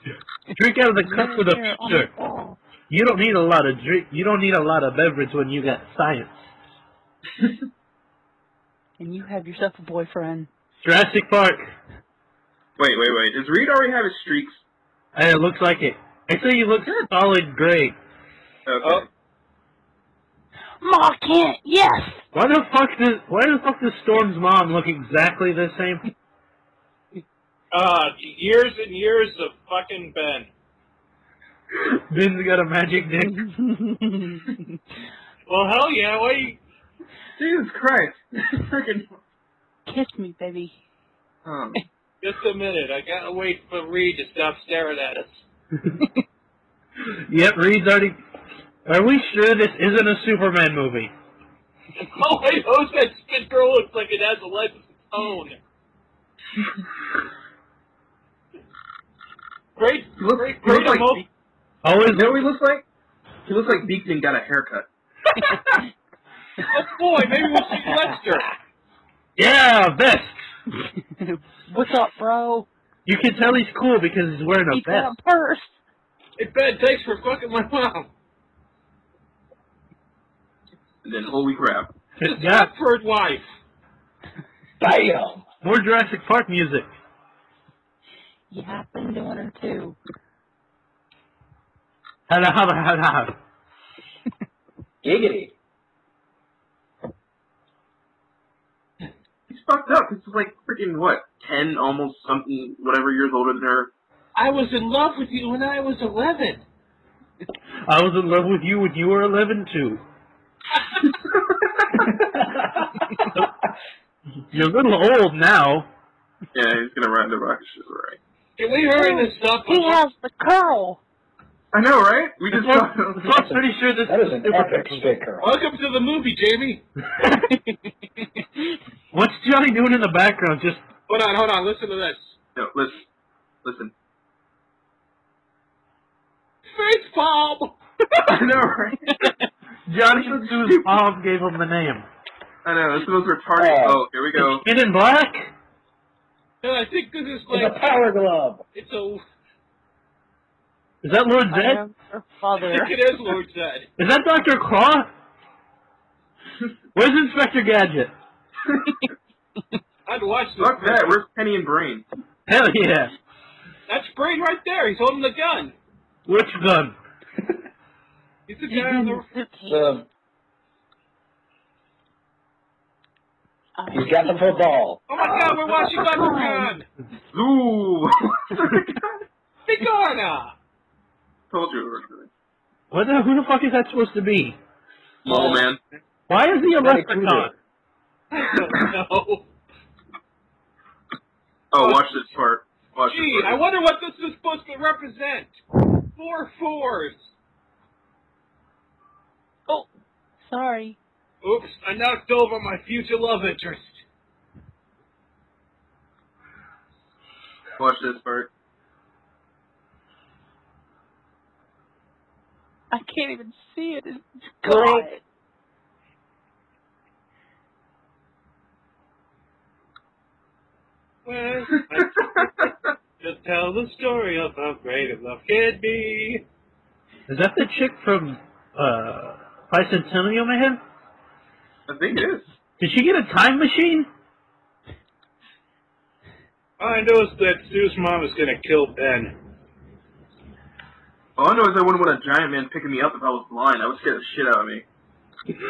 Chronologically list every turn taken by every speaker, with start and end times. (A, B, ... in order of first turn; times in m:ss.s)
0:00.5-0:02.1 A
0:01.0-0:02.6 B
0:02.9-0:06.4 A
0:09.0-0:10.5 B
0:10.8-0:11.6 A
0:12.8-0:14.6 C
0:15.1-0:18.0 A
0:18.6-0:19.0 C
0:20.8-0:22.2 B
0:22.3-0:26.0 A
0:27.7-0:30.5 D
0:31.7-0:33.4 A
0:33.3-0:34.6 B
0:35.5-0:36.6 D
0:37.4-0:39.2 C
0:39.8-0:40.8 B
0:41.4-0:41.8 C
0:42.2-0:45.4 D
0:47.3-0:48.2 A
0:48.8-0:51.1 A
0:52.0-0:55.6 D
0:59.8-1:01.2 D
1:00.2-1:01.2 C
1:01.8-1:02.4 A
1:02.1-1:02.8 C
1:03.4-1:05.6 C
1:06.7-1:08.5 D
1:09.4-1:10.4 A
1:11.2-1:12.7 B
1:13.0-1:15.1 A
1:14.7-1:15.7 B
1:16.4-1:18.1 D
1:21.0-1:21.9 C
1:22.2-1:22.7 A
1:22.2-1:23.4 D
1:24.8-1:25.4 E
1:25.6-1:26.9 A
1:28.5-1:30.0 B
1:32.3-1:33.3 A
1:35.0-1:35.5 E
1:39.5-1:43.9 C
1:44.3-1:46.6 D
1:47.9-1:50.0 A
1:54.5-1:55.9 A
1:56.5-1:58.2 C
1:58.6-2:00.0 D
1:58.9-2:01.0 B
2:01.7-2:03.4 C
2:02.5-2:05.1 A
2:03.3-2:05.5 E
2:05.4-2:06.8 D
2:09.1-2:10.8 A
2:11.1-2:12.4 D
2:12.6-2:13.0 C
2:13.6-2:13.9 C
2:16.7-2:17.8 D
2:18.2-2:19.3 C
2:19.9-2:22.0 A
2:20.1-2:21.0 C
2:22.6-2:24.6 C
2:23.6-2:24.0 E
2:24.4-2:25.5 A
2:26.6-2:27.9 D
2:27.5-2:28.6 E
2:28.7-2:29.2 D
2:31.0-2:31.8 A
2:31.5-2:33.0 B
2:32.6-2:33.9 D
2:34.0-2:35.1 A
2:36.9-2:38.1 A
2:40.0-2:41.2 D
2:40.6-2:42.0 C
2:42.5-2:43.1 A
2:43.9-2:45.7 D
2:46.3-2:47.0 A
2:48.5-2:49.2 D
2:48.7-2:49.9 B
2:49.7-2:50.0 E
2:53.8-2:54.6 B
2:53.9-2:55.0 E
2:55.1-2:56.8 D
2:56.0-2:56.8 B
2:57.3-2:59.1 C
2:59.6-3:00.5 D
3:01.5-3:02.3 C
3:02.9-3:04.6 A
3:05.2-3:05.8 C
3:05.3-3:05.6 E
3:06.3-3:07.5 A
3:06.8-3:07.5 E
3:08.3-3:09.4 D
3:11.7-3:13.6 C
3:11.8-3:12.0 D
3:13.0-3:15.6 D
3:16.1-3:17.3 D
3:20.4-3:21.0 B
3:21.4-3:24.0 D
3:27.8-3:28.5 C
3:32.9-3:35.2 B
3:34.6-3:35.0 D
3:41.2-3:42.7 D
3:43.2-3:46.4 D
3:47.3-3:50.8 A
3:51.9-3:52.5 C
3:52.8-3:54.1 A
3:56.8-3:59.4 D
4:01.4-4:04.8 C